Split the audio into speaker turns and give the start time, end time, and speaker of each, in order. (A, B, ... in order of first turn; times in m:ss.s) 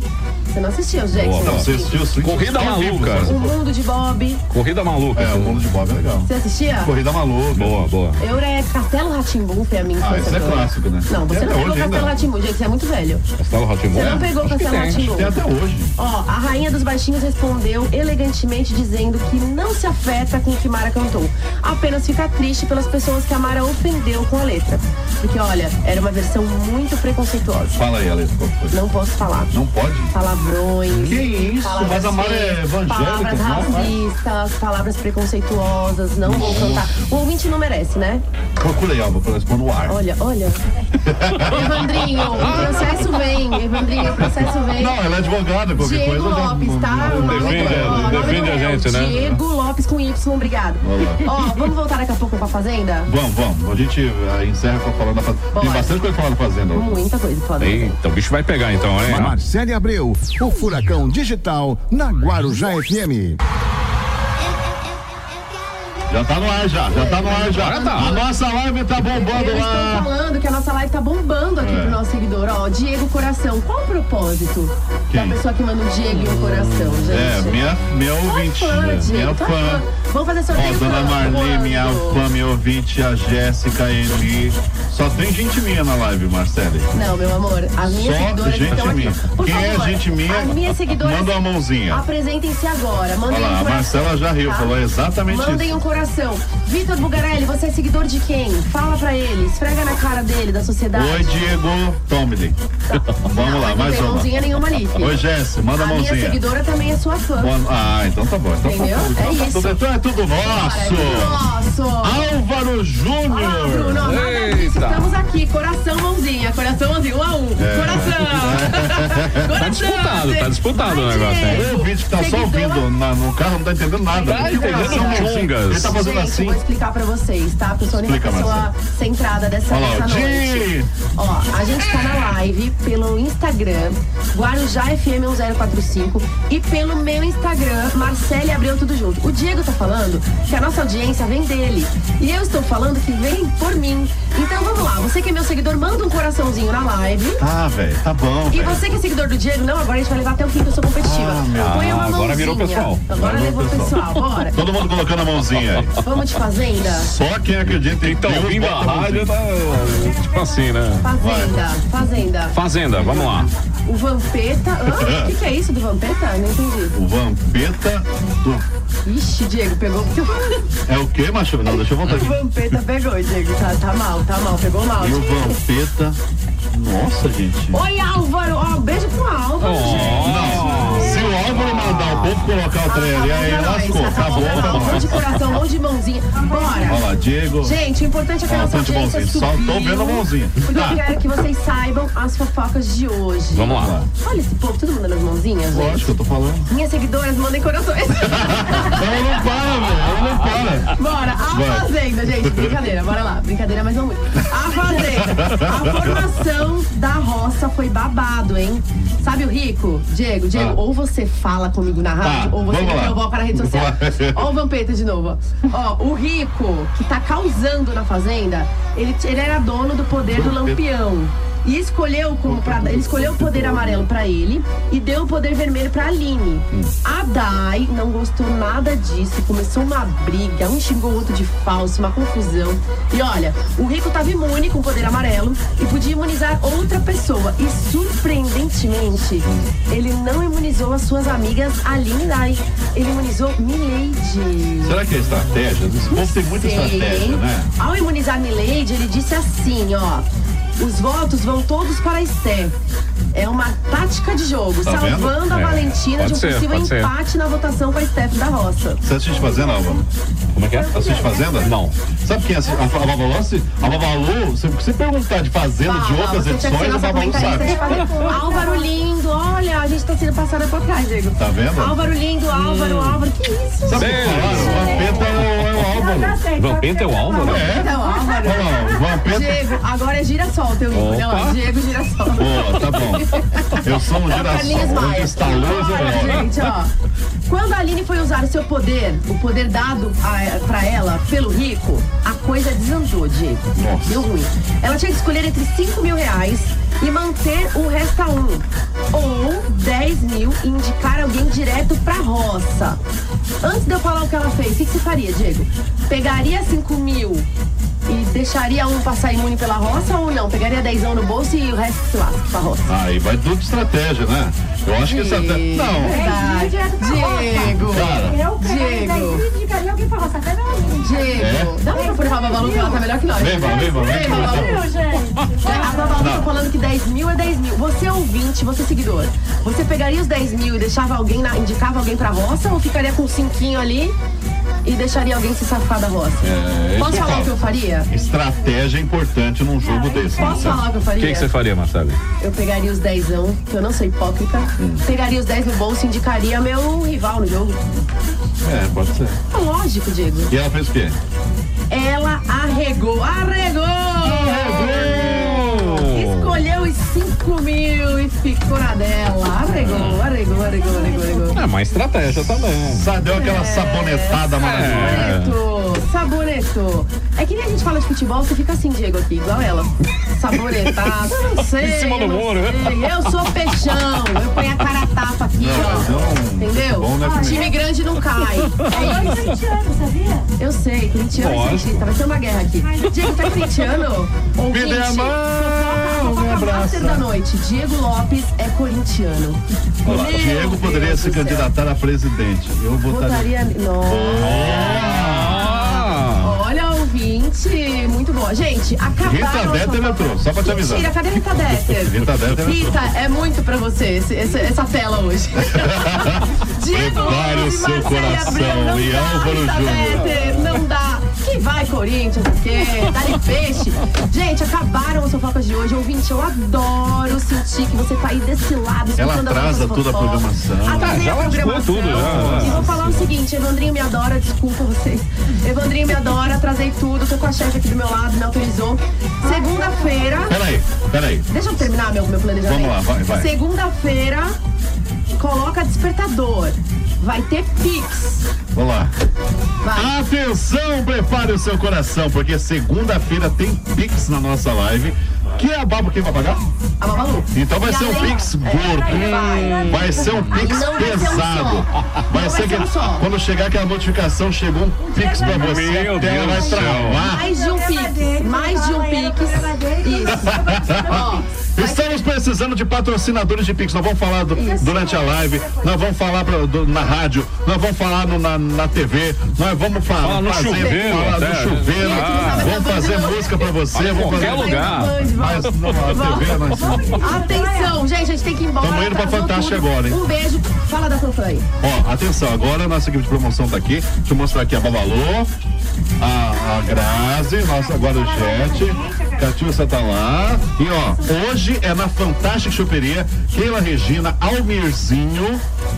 0:00.5-0:02.2 A
0:01.1-0:03.5 B
0:01.4-0:03.5 C
0:03.1-0:04.4 A
0:04.5-0:05.7 B
0:05.1-0:06.3 C
0:06.2-0:06.9 A
0:06.8-0:07.8 C
0:07.5-0:08.2 B
0:08.2-0:13.2 A
0:10.0-0:12.2 C
0:13.4-0:15.0 B
0:13.9-0:15.4 A
0:14.0-0:14.2 C
0:14.9-0:15.9 C
0:16.0-0:27.8 A
0:27.8-0:28.8 C
0:28.7-0:29.5 A
0:29.5-0:30.1 C
0:30.1-0:38.2 A
0:30.9-0:33.9 C
0:36.2-0:37.0 C
0:38.6-0:40.0 C
0:39.9-0:40.6 A
0:41.0-0:43.0 C
0:41.4-0:45.0 A
0:42.4-0:43.0 B
0:44.2-0:48.5 C
0:45.8-0:53.1 A
0:47.1-0:49.4 B
0:49.1-0:49.4 C
0:50.8-0:51.3 C
0:53.1-0:57.0 C
0:55.5-0:55.9 A
0:56.7-0:58.0 A
0:57.6-0:59.4 B
0:59.0-1:03.4 D
1:06.1-1:10.1 C
1:06.9-1:08.3 A
1:07.5-1:08.2 B
1:09.3-1:17.7 A
1:11.6-1:12.0 C
1:15.1-1:15.4 C
1:16.1-1:17.3 B
1:17.1-1:19.8 C
1:18.2-1:22.2 A
1:20.5-1:26.9 C
1:26.9-1:34.7 A
1:27.8-1:32.0 C
1:33.3-1:35.8 C
1:35.3-1:41.3 A
1:40.9-1:42.6 C
1:42.9-1:47.5 A
1:43.2-1:46.4 C
1:47.4-1:51.4 C
1:48.6-1:49.8 A
1:50.4-1:52.3 A
1:52.0-1:54.2 C
1:53.3-2:02.8 A
1:54.0-1:55.2 B
1:57.6-1:59.5 C
1:57.9-1:58.2 B
1:59.5-2:01.7 B
2:01.5-2:06.6 C
2:04.2-2:05.9 B
2:04.2-2:05.3 A
2:05.8-2:27.4 A
2:07.9-2:08.7 C
2:09.7-2:10.9 C
2:27.4-2:28.8 C
2:28.5-2:34.6 A
2:31.0-2:32.0 C
2:31.5-2:33.0 B
2:33.1-2:36.0 C
2:36.0-2:37.1 A
2:37.0-2:39.3 C
2:37.6-2:41.1 B
2:39.6-2:40.7 E
2:41.0-2:47.0 A
2:41.2-2:41.6 C
2:42.5-2:43.5 B
2:44.9-2:45.3 C
2:46.9-2:48.6 C
2:49.0-2:50.6 A
2:50.8-2:52.4 C
2:51.8-2:55.6 A
2:55.0-2:57.8 C
2:57.7-3:01.8 A
2:59.6-3:02.5 B
2:59.8-3:05.5 C
3:02.8-3:07.1 A
3:04.4-3:05.1 B
3:06.3-3:07.2 E
3:06.8-3:07.8 C
3:07.6-3:16.1 A
3:08.5-3:11.0 C
3:13.5-3:13.9 B
3:13.7-3:14.1 C
3:15.7-3:16.7 C
3:16.7-3:19.4 A
3:18.2-3:21.0 C
3:20.3-3:20.8 B
3:20.9-4:05.0 A
3:21.5-3:22.8 C
3:25.0-3:26.2 C
3:30.5-3:30.8 C
3:32.2-3:34.5 C
3:40.3-3:40.8 C
3:42.4-3:44.1 C
3:59.4-3:59.7 C
4:04.8-4:07.7 C
4:06.1-4:10.3 A
4:10.8-4:12.7 A
4:13.3-4:19.0 A
4:14.8-4:15.3 C
4:15.4-4:17.1 B
4:19.0-4:20.0 C
4:19.3-4:20.0 E
4:20.5-4:21.0 B
4:20.7-4:21.7 E
4:20.9-4:28.0 C
4:21.6-4:21.9 B
4:25.8-4:35.2 A
4:27.2-4:28.9 E
4:27.9-4:28.2 B
4:31.4-4:32.0 C
4:32.5-4:33.3 B
4:33.8-4:36.4 C
4:33.9-4:35.8 B
4:34.5-4:39.2 E
4:36.5-4:37.7 B
4:37.4-4:46.9 A
4:37.4-4:37.9 C
4:38.4-4:39.7 C
4:40.9-4:41.6 B
4:42.3-4:46.7 C
4:46.1-4:46.4 B
4:47.5-5:03.0 A
4:53.8-4:54.3 C
5:03.6-5:07.5 A
5:08.1-5:12.9 A
5:12.9-5:16.3 C
5:15.0-5:19.4 A
5:16.0-5:26.3 E
5:17.8-5:18.4 C
5:21.0-5:24.9 A
5:21.4-5:21.8 C
5:23.4-5:24.8 C
5:25.6-5:34.2 A
5:26.2-5:26.5 C
5:34.8-5:38.1 A
5:36.4-5:40.8 C
5:39.8-5:40.8 E
5:40.3-5:41.5 A
5:41.0-5:42.2 B
5:42.4-5:47.9 A
5:44.8-5:45.0 C
5:48.6-5:49.4 C
5:49.5-5:50.5 A
5:50.5-5:51.2 C
5:51.9-6:01.6 A
5:54.2-5:55.8 C
5:55.0-5:56.6 B
5:59.8-6:00.3 B
6:00.5-6:02.0 E
6:01.5-6:03.2 B
6:02.5-6:05.3 C
6:03.2-6:19.4 A
6:04.5-6:05.6 B
6:10.5-6:14.8 B
6:15.6-6:17.7 C
6:17.2-6:17.8 E
6:18.9-6:20.5 E
6:18.9-6:19.4 B
6:20.6-6:31.7 A
6:21.3-6:22.1 B
6:22.8-6:24.0 E
6:24.7-6:27.3 C
6:30.0-6:35.6 C
6:33.1-7:10.6 A
6:34.4-6:36.6 B
6:39.2-6:41.1 C
6:42.0-6:42.9 C
6:45.7-6:50.4 C
6:59.2-7:01.3 C
7:01.0-7:03.3 B
7:02.1-7:03.0 C
7:09.4-7:10.5 E
7:10.5-7:11.5 C
7:11.5-7:14.6 A
7:12.6-7:13.5 C
7:15.4-7:18.5 A
7:18.7-7:19.1 C
7:19.8-7:20.1 A
7:19.9-7:26.6 C
7:27.0-7:33.3 A
7:27.5-7:37.5 C
7:29.1-7:30.8 B
7:29.3-7:30.3 E
7:35.1-7:35.6 A
7:35.4-7:37.2 B
7:37.0-7:42.0 A
7:37.2-7:41.5 E
7:40.5-7:57.4 C
7:44.5-7:45.1 A
7:44.5-7:46.1 E
7:50.2-7:52.8 B
7:50.5-7:51.2 A
7:51.9-8:01.7 A
7:53.9-7:55.2 B
7:55.8-7:56.3 B
7:56.6-7:58.0 E
7:58.8-8:00.2 C
8:01.8-8:05.5 C
8:06.2-8:15.6 C
8:07.0-8:09.6 E
8:11.1-8:11.4 E